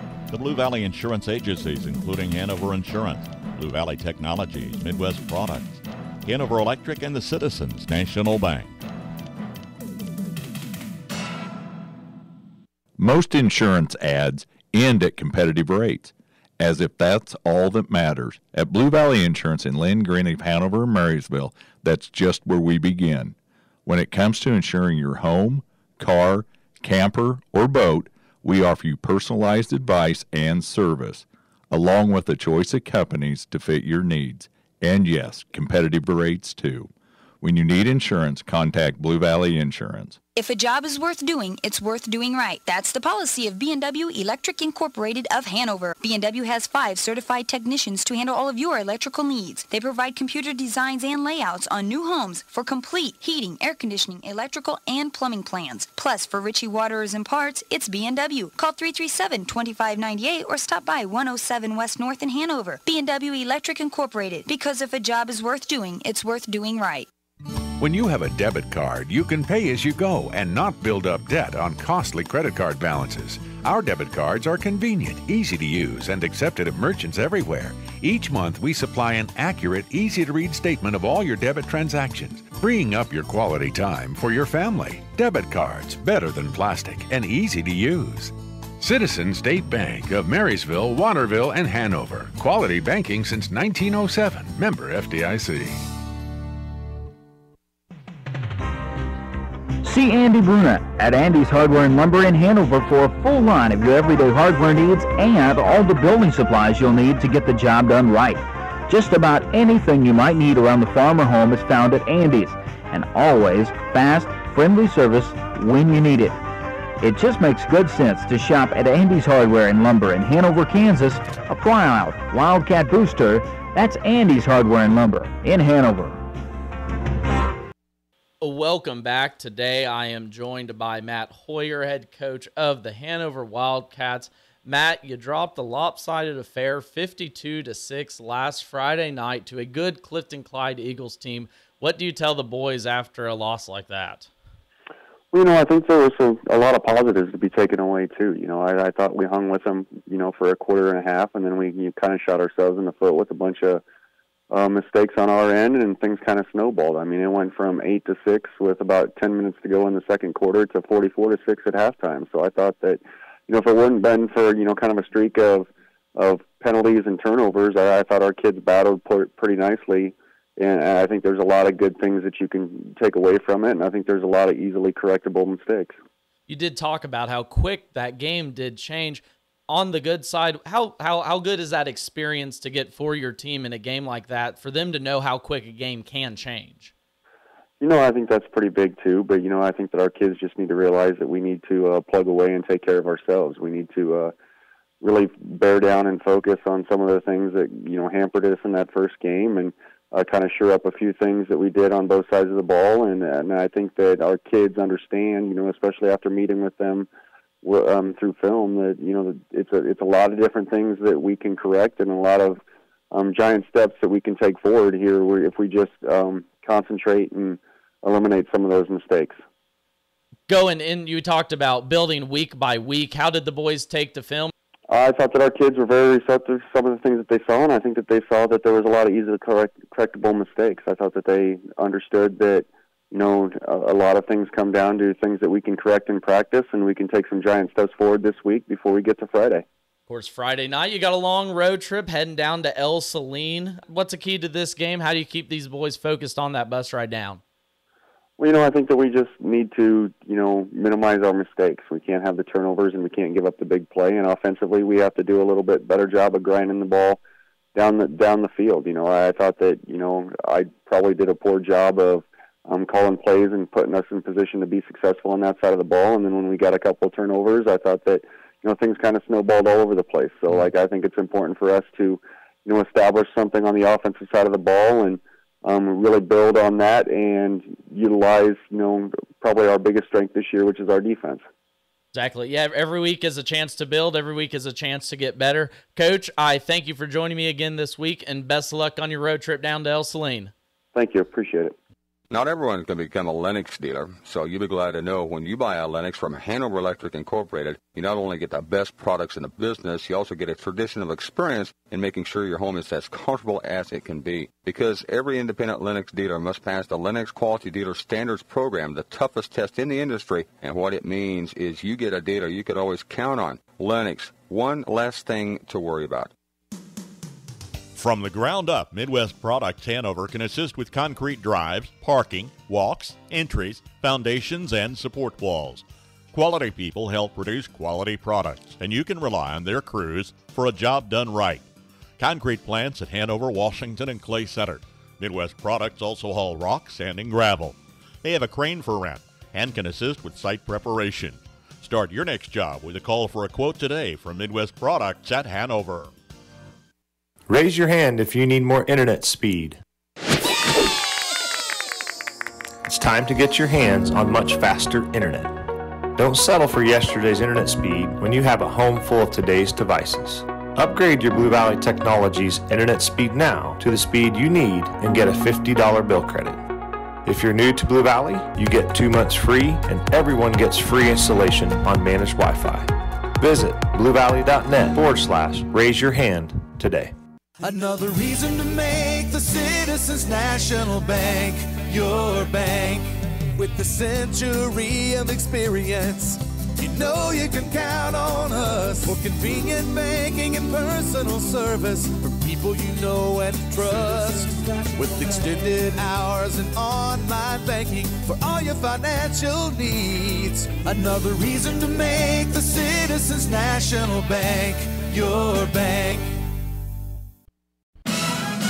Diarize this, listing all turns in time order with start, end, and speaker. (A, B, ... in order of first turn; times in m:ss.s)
0:00.3-0:08.7 A
0:13.0-0:23.3 B
0:23.8-0:36.9 B
0:37.4-0:40.2 B
0:40.4-1:07.1 C
1:07.8-1:35.7 D
1:39.8-1:56.3 E
1:57.0-2:06.2 E
2:08.4-2:24.3 F
2:25.3-2:33.8 G
2:34.5-2:56.0 G
2:56.5-3:06.9 F
3:07.8-3:14.3 G
3:15.0-3:27.1 G
3:27.6-3:39.4 G
3:40.5-3:44.5 F
3:44.9-3:59.6 G
4:00.1-4:07.4 F
4:08.4-4:17.2 G
4:17.7-4:41.4 G
4:42.1-4:50.5 F
4:50.9-4:51.7 G
4:52.3-5:16.3 H
5:17.9-5:31.6 A
5:32.2-5:46.1 A
5:47.5-5:49.8 I
5:52.8-5:55.5 I
5:56.2-6:06.6 I
6:07.2-6:17.1 I
6:17.6-6:46.3 J